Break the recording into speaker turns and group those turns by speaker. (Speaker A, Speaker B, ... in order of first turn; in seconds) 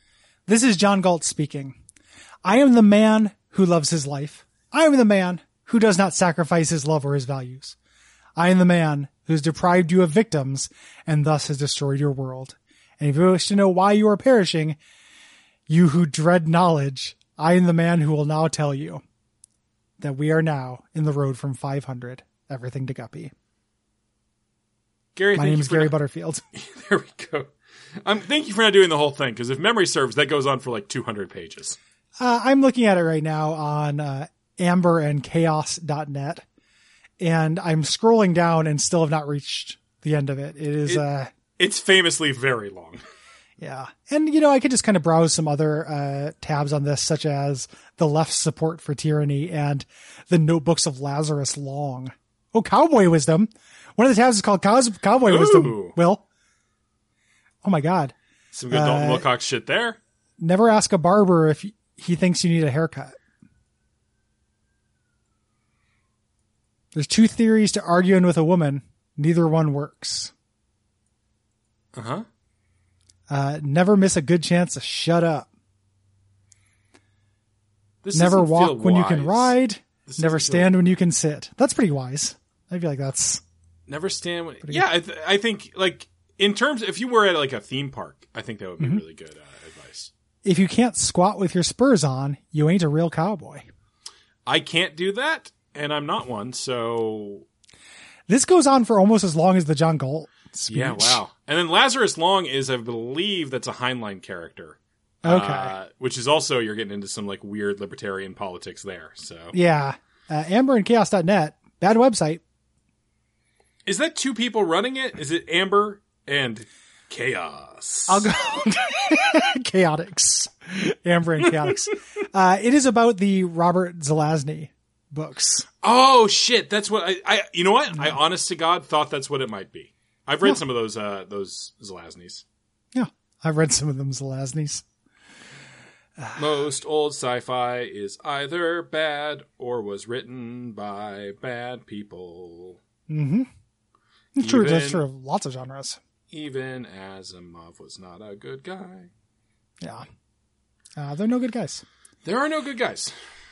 Speaker A: 0.5-1.8, 2.4-7.8, 8.4-14.8, 15.7-19.0, 20.0-23.3, 25.3-26.4, 32.2-36.4, 37.2-41.3, 43.6-56.2, 57.6-58.1, 58.7-59.2, 60.4-63.2, 66.9-70.3, 73.3-75.5, 78.1-83.4, 90.4-93.7, 98.3-101.2, 105.2-105.8, 109.5-112.4, 118.1-125.7, 132.9-134.8, 136.2-136.4, 143.1-143.5, 144.4-146.0, 151.0-151.8
Speaker B: 25.2-25.9, 26.5-31.8, 41.6-43.0, 55.2-56.0, 58.5-60.0, 71.9-72.2, 78.0-80.8, 83.9-90.1, 94.5-97.4, 100.7-109.5, 113.9-118.3, 125.8-132.4, 136.4-142.8, 144.4-145.0, 146.3-149.1, 152.2-153.2